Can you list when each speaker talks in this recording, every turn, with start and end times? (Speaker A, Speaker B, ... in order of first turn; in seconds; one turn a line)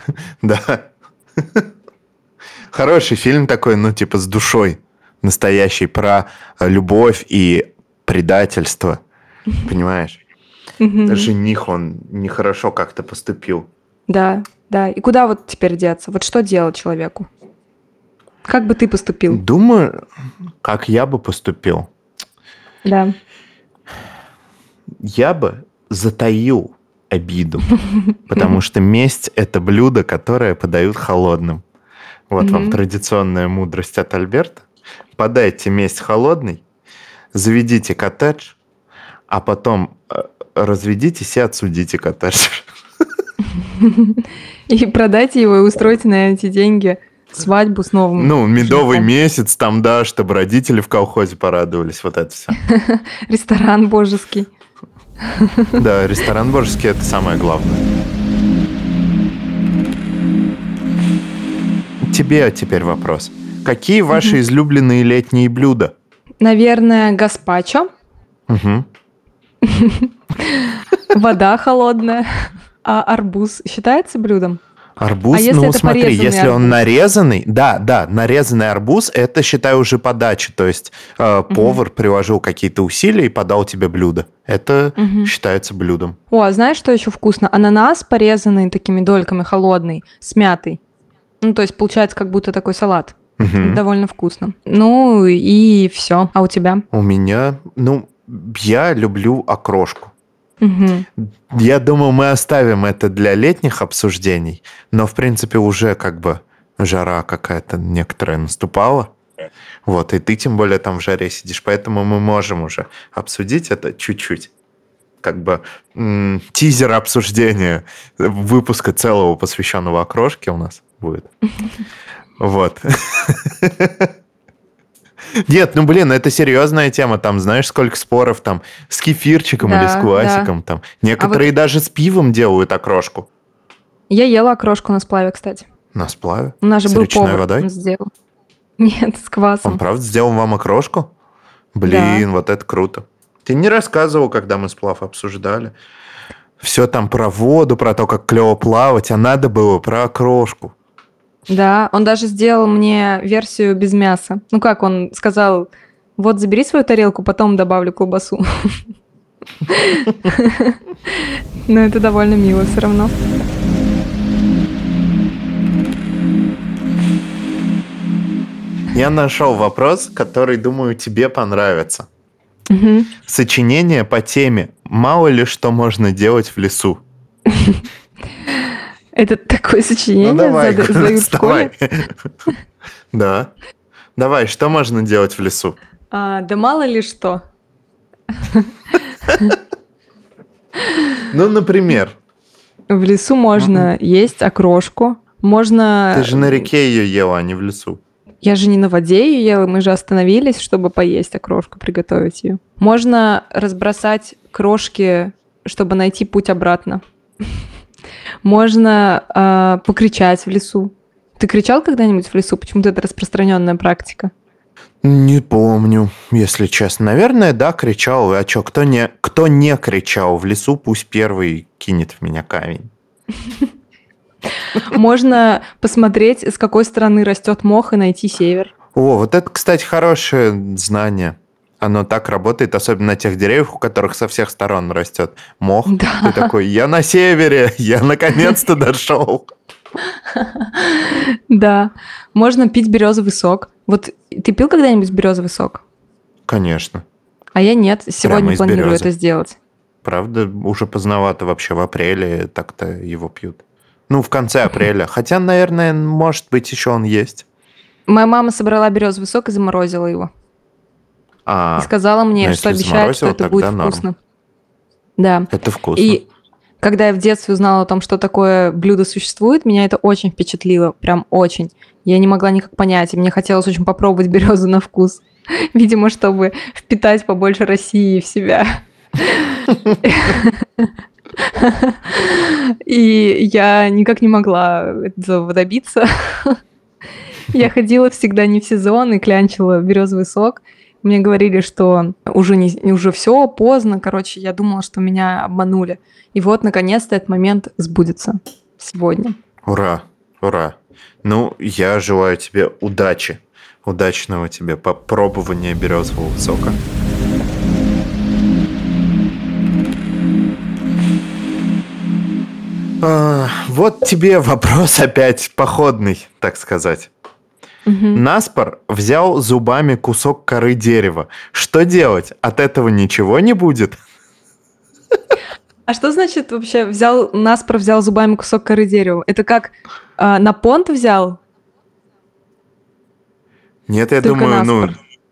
Speaker A: 0.4-0.9
Speaker A: 1.4-1.7
Speaker A: 2.7-9.0
Speaker A: 9.6-10.2
Speaker B: 10.8-11.3
Speaker A: 11.1-13.7
Speaker B: 14.1-17.3
Speaker B: 18.5-19.4
Speaker A: 19.3-20.0
Speaker A: 20.6-21.9
Speaker B: 22.8-23.1
Speaker A: 25.0-27.7
Speaker A: 28.3-31.6
Speaker A: 32.3-34.6
Speaker B: 32.4-32.8
Speaker A: 35.2-36.6
Speaker A: 37.3-38.5
Speaker A: 39.3-42.7
Speaker B: 43.6-49.1
Speaker A: 48.1-52.5
Speaker B: 52.5-54.5
Speaker B: 55.3-55.8
Speaker A: 55.8-57.8
Speaker A: 62.0-65.9
Speaker B: 66.4-67.9
Speaker A: 68.5-68.9
Speaker B: 69.6-74.6
Speaker A: 75.0-86.2
Speaker B: 75.3-76.8
Speaker B: 81.5-81.8
Speaker B: 85.0-85.3
Speaker B: 86.3-90.8
Speaker B: 91.4-96.8
Speaker A: 93.4-93.8
Speaker A: 96.9-100.1
Speaker B: 100.6-101.0
Speaker A: 101.2-109.1
Speaker A: 109.8-114.5
Speaker A: 115.2-121.3
Speaker A: 122.4-124.1
Speaker A: 125.4-133.3
Speaker B: 129.6-130.5
Speaker B: 131.2-131.5
Speaker B: 134.1-135.6
Speaker A: 135.9-137.7
Speaker B: 136.6-138.1
Speaker B: 138.8-139.8
Speaker A: 139.6-141.1
Speaker A: 141.7-145.7
Speaker B: 141.8-142.2
Speaker A: 146.6-150.7
Speaker B: 151.5-158.8
Speaker B: 159.7-163.1
Speaker A: 168.9-172.1
Speaker B: 172.7-173.1
Speaker A: 173.2-177.0
Speaker B: 177.5-177.8
Speaker B: 179.1-181.7
Speaker A: 180.2-182.3
Speaker A: 183.1-183.5
Speaker A: 184.2-185.8
Speaker B: 186.1-187.4
Speaker B: 188.4-188.7
Speaker B: 189.2-189.6
Speaker B: 190.9-191.2
Speaker A: 191.3-192.2
Speaker B: 192.9-196.7
Speaker A: 193.6-193.9
Speaker A: 196.1-198.0
Speaker B: 198.4-207.0
Speaker B: 208.4-214.3
Speaker A: 215.0-222.9
Speaker B: 224.8-228.7
Speaker A: 228.9-239.5
Speaker B: 235.9-236.5
Speaker B: 240.3-245.8
Speaker A: 246.5-247.0
Speaker B: 247.6-249.6
Speaker A: 248.2-249.1
Speaker A: 250.0-257.4
Speaker B: 258.1-260.3
Speaker A: 261.4-264.1
Speaker B: 261.8-264.1
Speaker B: 265.2-266.2
Speaker A: 265.5-266.2
Speaker B: 266.8-280.9
Speaker B: 281.4-286.6
Speaker B: 287.5-299.4
Speaker A: 299.6-306.8
Speaker A: 313.0-317.1
Speaker B: 317.9-318.2
Speaker A: 318.1-324.0
Speaker B: 325.9-331.4
Speaker A: 333.9-334.9
Speaker B: 334.2-334.9